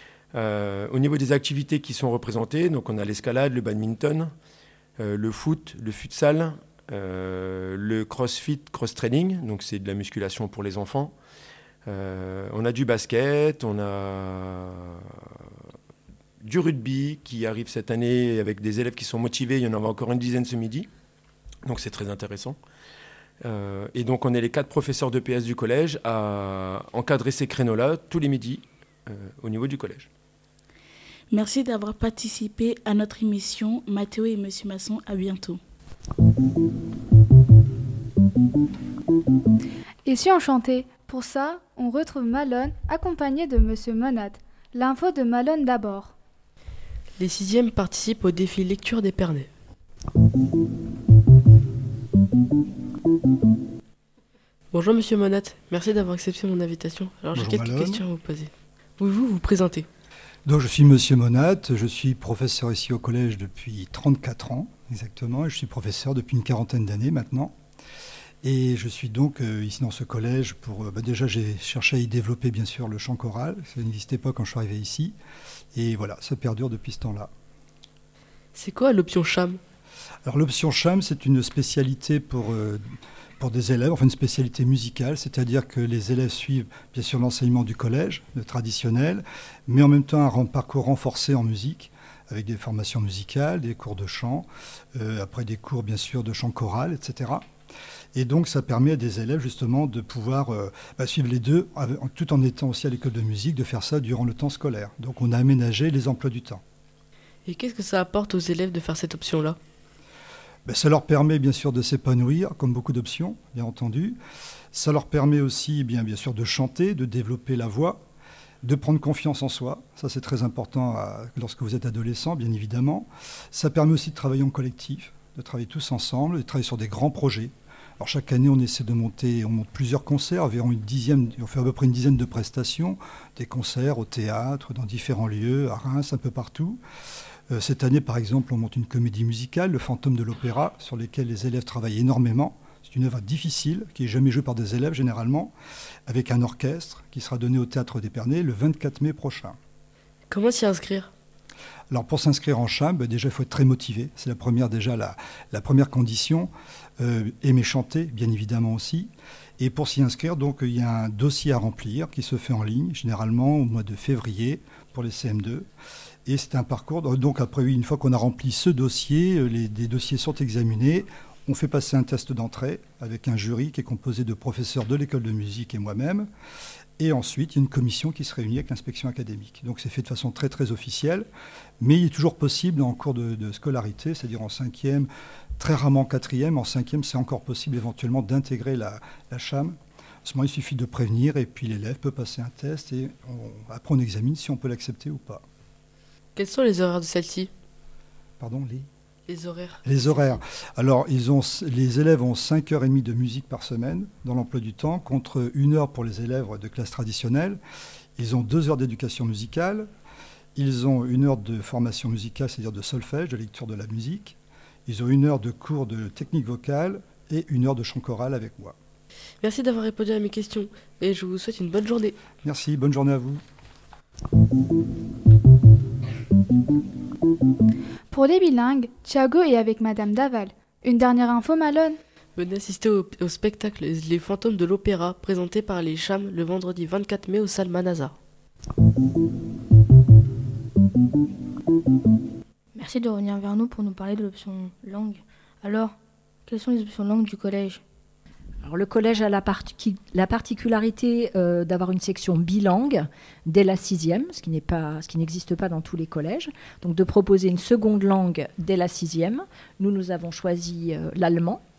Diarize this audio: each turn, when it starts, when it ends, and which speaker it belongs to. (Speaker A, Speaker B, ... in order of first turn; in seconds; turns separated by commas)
Speaker A: 0.3-4.3, Speaker A: 5.0-11.2, Speaker A: 11.9-15.1, Speaker A: 16.4-20.9, Speaker A: 21.6-22.6, Speaker A: 23.4-30.1, Speaker B: 31.3-35.6, Speaker C: 40.0-46.1, Speaker D: 47.1-49.5, Speaker D: 54.7-59.9, Speaker E: 57.3-58.0, Speaker E: 60.5-67.6, Speaker E: 68.4-75.2, Speaker E: 75.7-77.3, Speaker D: 78.5-79.6, Speaker E: 80.2-82.8, Speaker E: 83.4-97.5, Speaker E: 98.1-106.6, Speaker D: 107.5-109.6, Speaker E: 110.7-114.2, Speaker E: 114.7-118.0, Speaker E: 118.6-136.8, Speaker E: 137.5-145.5, Speaker E: 146.1-149.6, Speaker D: 150.3-151.1, Speaker E: 151.9-165.7, Speaker E: 166.2-176.3, Speaker E: 177.0-181.3, Speaker E: 181.8-195.4, Speaker D: 196.3-197.5, Speaker E: 198.4-198.9, Speaker D: 199.3-199.8, Speaker E: 199.8-207.6, Speaker E: 208.2-209.9, Speaker E: 210.6-218.8, Speaker D: 219.4-222.1, Speaker E: 222.4-223.4, Speaker C: 228.1-232.0, Speaker D: 232.3-238.2, Speaker F: 242.8-246.0, Speaker F: 246.5-247.8, Speaker G: 248.6-261.6